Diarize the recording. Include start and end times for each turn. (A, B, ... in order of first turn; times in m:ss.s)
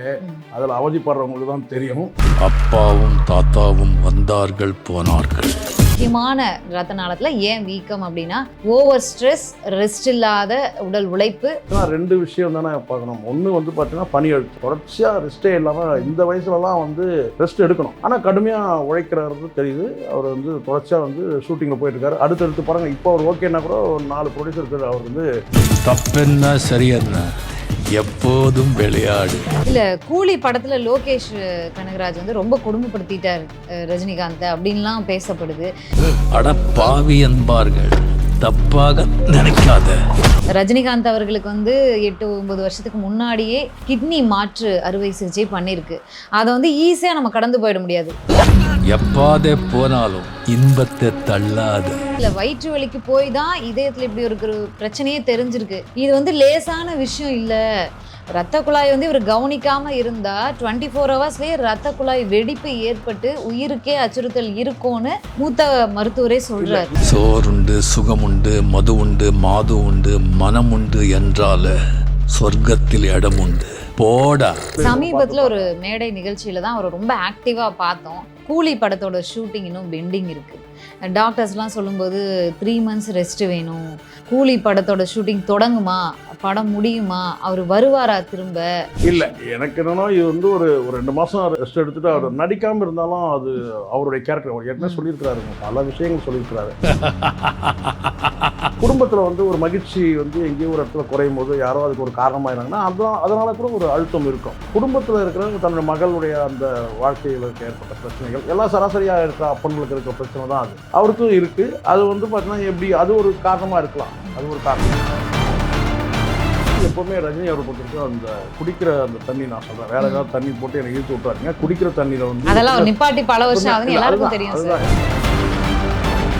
0:00.5-0:02.1 A
0:02.4-0:05.5 B
0:06.0-0:11.5 C
0:11.7-0:25.3 A
0:25.8-0:27.3 B
0:28.0-0:29.4 B
0:29.7-0:35.7 C
0:36.3-0:40.0 B
0:40.6-0:48.1 C
0:48.7-0:52.0 B
0:52.2-0:57.6 C
0:58.4-1:06.9 C
1:06.6-1:07.0 A
1:07.0-1:11.7 B
1:12.3-1:14.6 B
1:14.8-1:15.7 A
1:14.8-1:29.2 C
1:29.1-1:36.8 A
1:34.8-1:35.0 C
1:37.0-1:38.5 B
1:38.8-1:55.2 A
1:56.8-2:02.9 A
2:00.0-2:00.3 C
2:02.5-2:04.8 C
2:03.5-2:04.9 A